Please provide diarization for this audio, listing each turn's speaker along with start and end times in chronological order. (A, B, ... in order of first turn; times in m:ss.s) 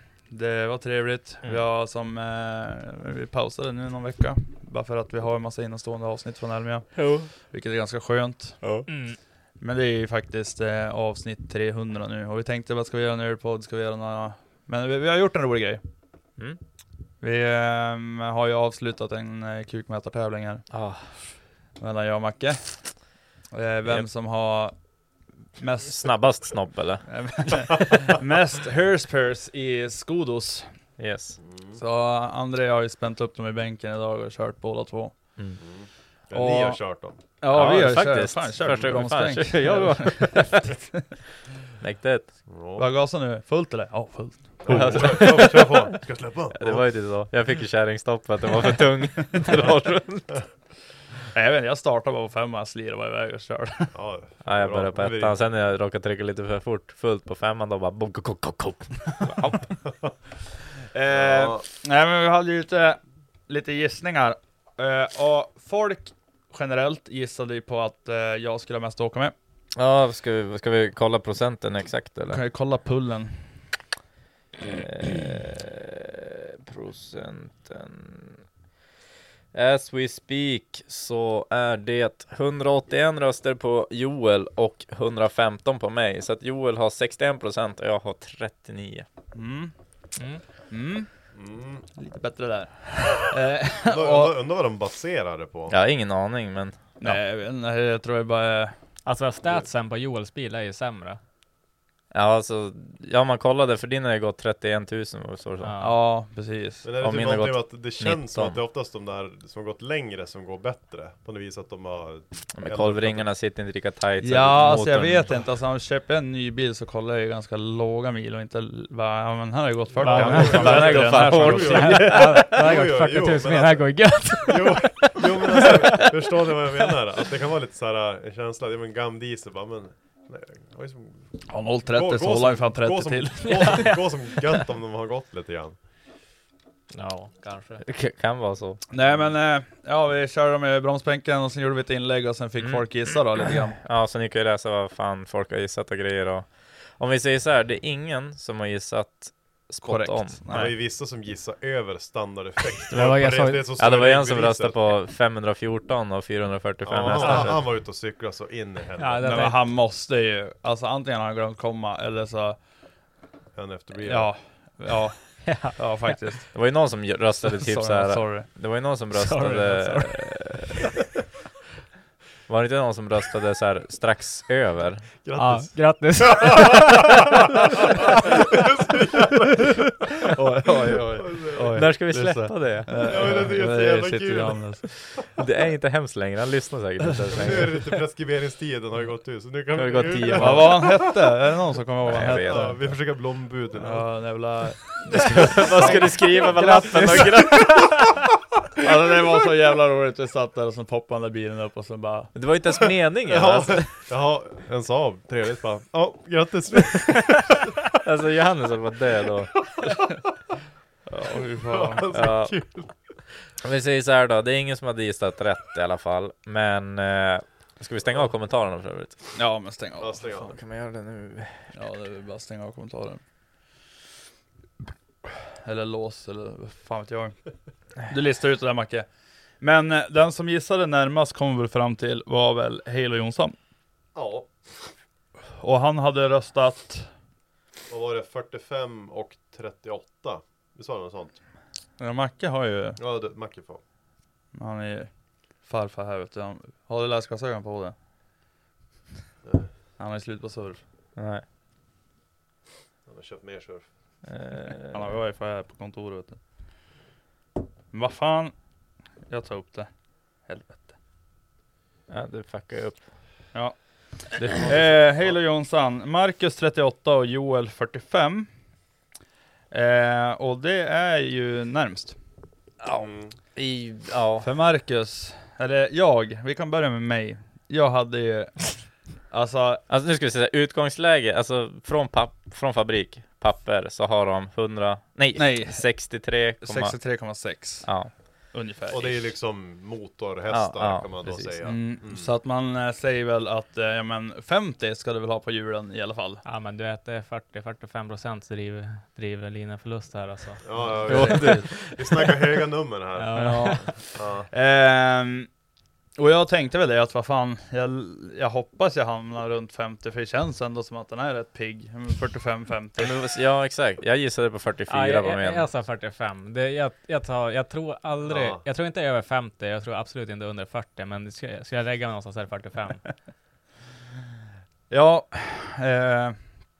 0:00.3-0:08.7 A
0:07.0-0:07.3 B
0:08.6-0:08.9 B
0:08.9-0:09.2 C
0:09.6-0:15.8 A
0:17.2-0:20.7 A
0:20.7-0:21.1 B
0:21.8-0:23.0 A
0:23.5-0:24.7 A
0:25.6-0:26.5 A
0:25.9-0:27.9 B
0:27.0-0:30.7 A
0:31.0-0:31.4 B
0:31.5-0:31.8 D
0:31.7-0:35.4 A
0:35.6-0:37.2 D
0:36.3-0:41.0 A
0:37.5-0:40.8 B
0:41.8-0:42.4 B
0:42.5-0:42.8 D
0:42.8-0:45.4 A
0:44.6-0:46.9 D
0:44.7-0:46.0 B
0:46.5-0:50.4 B
0:51.3-0:53.9 A
0:53.9-0:55.4 D
0:54.4-0:59.3 B
0:59.2-0:59.7 A
1:00.9-1:09.3 A
1:01.1-1:01.6 D
1:09.8-1:12.4 B
1:12.3-1:13.4 A
1:14.6-1:18.4 B
1:19.5-1:29.0 B
1:29.3-1:29.7 A
1:30.2-1:30.4 C
1:30.7-1:31.1 A
1:31.3-1:31.9 D
1:31.9-1:34.4 A
1:33.8-1:35.7 D
1:35.7-1:37.2 B
1:37.0-1:38.7 A
1:39.0-1:41.2 C
1:42.1-1:45.7 B
1:45.6-1:46.0 C
1:45.8-1:46.8 A
1:46.8-1:53.3 D
1:47.0-1:48.6 B
1:52.5-1:55.3 B
1:54.2-2:02.3 A
1:59.9-2:11.3 D
2:00.0-2:06.0 C
2:00.3-2:02.4 B
2:11.5-2:13.9 A
2:11.8-2:15.8 D
2:13.5-2:14.0 C
2:16.9-2:17.8 C
2:17.8-2:18.8 B
2:18.9-2:23.8 A
2:22.6-2:30.4 B
2:29.8-2:30.8 A
2:30.5-2:34.9 D
2:32.9-2:33.7 C
2:33.8-2:37.6 B
2:36.8-2:39.5 D
2:37.1-2:37.6 C
2:39.0-2:39.7 C
2:39.2-2:42.6 A
2:43.5-2:44.3 D
2:44.0-2:46.6 A
2:45.4-2:46.2 C
2:46.5-2:50.8 B
2:47.4-2:48.5 A
2:49.1-2:50.3 C
2:52.5-2:55.1 B
2:55.2-3:01.7 D
2:55.4-2:57.3 C
3:00.3-3:04.9 A
3:01.7-3:03.3 B
3:03.0-3:05.0 D
3:05.1-3:07.8 B
3:07.3-3:11.2 D
3:09.7-3:11.0 B
3:10.4-3:12.8 A
3:12.1-3:12.8 B
3:12.4-3:14.2 D
3:13.8-3:16.5 A
3:15.1-3:17.8 B
3:16.1-3:18.1 C
3:18.8-3:22.3 A
3:22.3-3:24.0 B
3:23.3-3:27.8 D
3:28.0-3:29.6 B
3:29.7-3:30.0 D
3:31.1-3:32.1 A
3:31.6-3:33.1 D
3:32.1-3:32.6 B
3:33.6-3:39.2 B
3:39.4-3:40.5 A
3:40.0-3:40.6 D
3:40.5-3:41.6 B
3:41.7-3:43.2 A
3:45.2-3:47.4 A
3:48.0-3:49.1 A
3:49.6-3:53.6 A
3:54.1-3:54.5 D
3:55.6-3:57.1 A
3:57.9-4:01.4 D
4:02.0-4:03.0 A
4:03.0-4:03.8 D
4:04.5-4:05.1 A
4:05.6-4:07.9 A
4:09.4-4:09.7 D
4:10.0-4:10.8 A
4:11.2-4:11.4 B
4:13.0-4:13.9 D
4:14.3-4:15.0 B
4:14.8-4:16.4 A
4:17.9-4:18.5 A
4:19.3-4:19.9 A
4:20.4-4:21.0 A
4:22.1-4:23.1 B
4:23.5-4:28.5 A
4:24.4-4:24.9 B
4:29.7-4:32.2 A
4:32.8-4:34.5 B
4:32.9-4:33.3 D
4:34.4-4:39.8 A
4:39.9-4:47.0 B
4:45.3-4:47.9 A
4:47.8-4:48.1 B
4:48.5-4:49.3 A
4:48.9-4:52.3 D
4:50.5-4:51.6 B
4:51.6-4:56.4 A
4:56.4-5:00.6 C
5:00.6-5:04.5 D
5:00.8-5:01.7 A
5:01.1-5:01.8 B
5:03.2-5:03.9 C
5:03.3-5:05.5 A
5:06.2-5:13.1 A
5:13.0-5:15.7 B
5:14.9-5:23.0 C
5:18.2-5:18.6 D
5:24.9-5:26.4 A